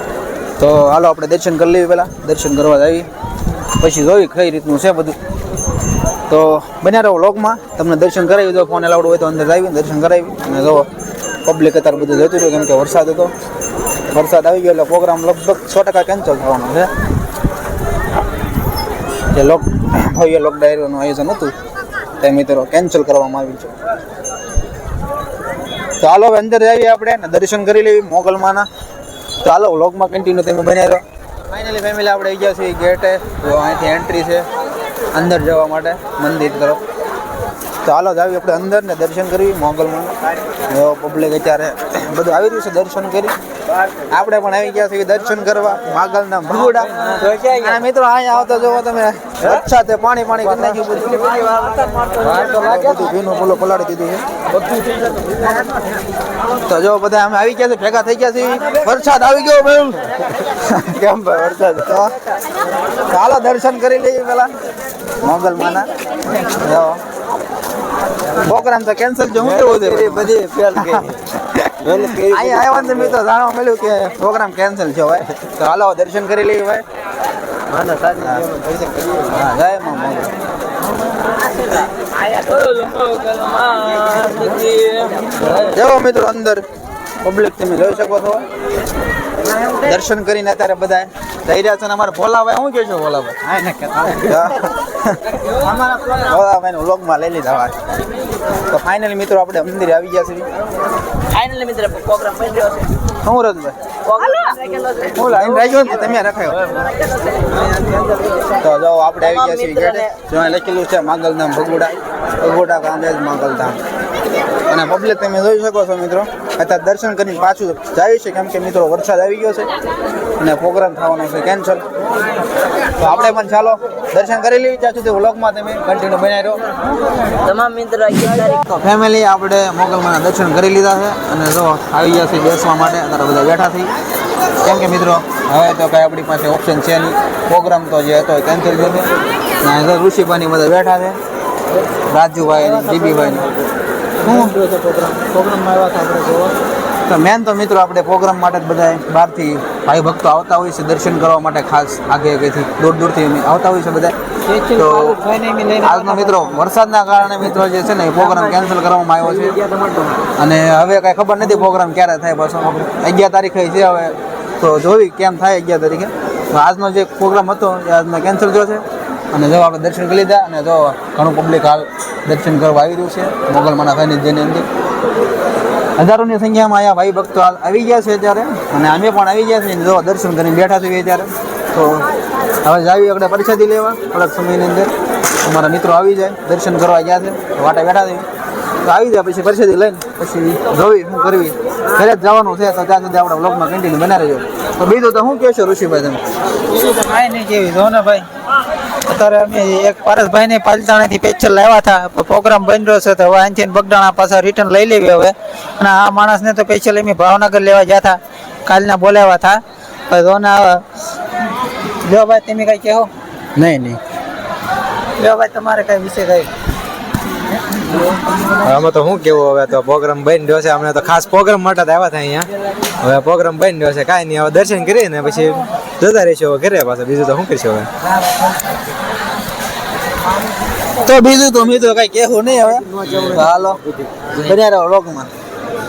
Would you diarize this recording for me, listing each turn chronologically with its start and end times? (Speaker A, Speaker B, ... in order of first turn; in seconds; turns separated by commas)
Speaker A: 0.6-3.1, Speaker A: 3.8-5.2, Speaker A: 6.3-10.9, Speaker A: 11.4-13.3, Speaker A: 14.1-16.9, Speaker A: 19.3-21.6, Speaker A: 22.2-23.7, Speaker A: 26.0-28.7, Speaker A: 29.4-34.5, Speaker A: 35.1-36.8, Speaker A: 37.8-40.1, Speaker A: 40.7-43.4, Speaker A: 44.1-54.2, Speaker A: 56.6-62.1, Speaker A: 63.1-64.5, Speaker A: 65.2-67.0, Speaker A: 68.3-76.8, Speaker A: 78.0-78.5, Speaker A: 79.2-80.3, Speaker B: 82.3-85.1, Speaker A: 85.5-86.7, Speaker A: 87.2-88.5, Speaker A: 89.8-97.8, Speaker A: 98.7-100.5, Speaker B: 101.3-102.9, Speaker A: 103.2-103.8, Speaker B: 104.1-105.1, Speaker A: 105.1-106.7, Speaker A: 108.6-113.8, Speaker A: 114.7-119.7, Speaker A: 120.4-121.8, Speaker A: 123.0-126.6, Speaker B: 127.5-128.4, Speaker A: 128.4-133.9, Speaker A: 134.6-139.1, Speaker A: 139.6-141.2, Speaker A: 142.1-143.6, Speaker A: 144.2-146.0, Speaker C: 144.7-146.5, Speaker A: 147.1-159.7, Speaker C: 155.2-155.8, Speaker A: 160.3-174.7, Speaker A: 176.0-182.1, Speaker A: 182.6-188.3, Speaker A: 188.8-196.3, Speaker C: 196.8-198.3, Speaker C: 199.1-210.8, Speaker C: 212.0-213.1, Speaker A: 213.6-214.0, Speaker C: 215.2-216.5, Speaker D: 218.6-222.5, Speaker D: 223.0-227.9, Speaker A: 231.0-235.3